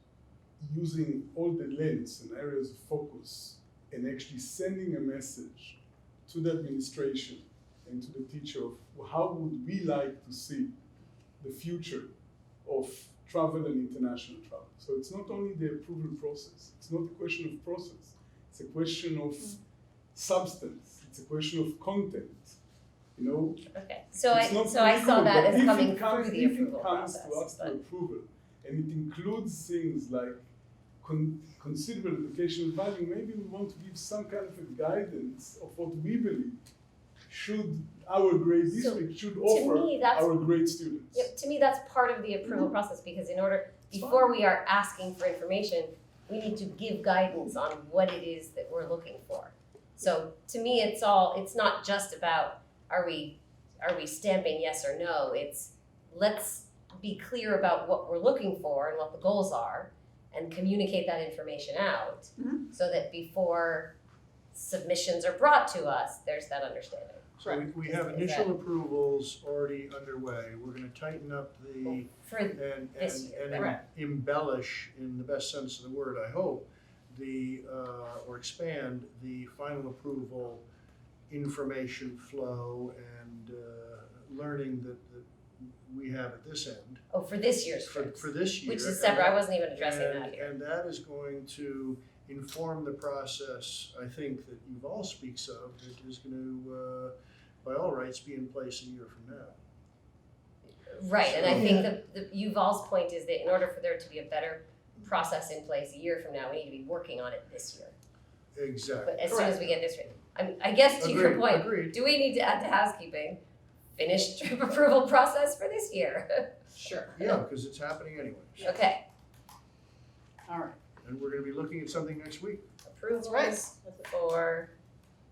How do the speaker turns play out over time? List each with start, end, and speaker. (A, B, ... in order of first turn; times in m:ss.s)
0:00.6-0:10.7 A
0:11.4-0:12.1 A
0:12.6-0:19.6 A
0:20.1-0:22.6 A
0:23.2-0:30.5 A
0:23.7-0:27.8 B
0:31.0-0:36.6 A
0:37.3-0:41.3 A
0:38.7-0:40.3 B
0:41.1-1:04.0 B
0:43.9-0:44.4 A
1:04.5-1:07.3 B
1:07.4-1:20.6 C
1:07.4-1:07.7 D
1:07.8-1:08.5 B
1:11.8-1:13.8 B
1:13.5-1:13.8 D
1:21.3-1:27.0 C
1:27.1-1:30.5 B
1:27.8-1:39.6 C
1:40.9-1:48.0 B
1:41.3-1:41.7 C
1:48.5-1:49.3 C
1:49.0-1:53.4 B
1:49.3-1:49.6 D
1:51.0-1:52.0 C
1:54.0-1:56.6 B
1:56.8-1:57.3 D
1:57.2-1:58.7 C
1:58.6-1:59.0 B
2:00.5-2:00.8 D
2:01.0-2:02.6 C
2:02.9-2:04.7 B
2:03.1-2:04.1 D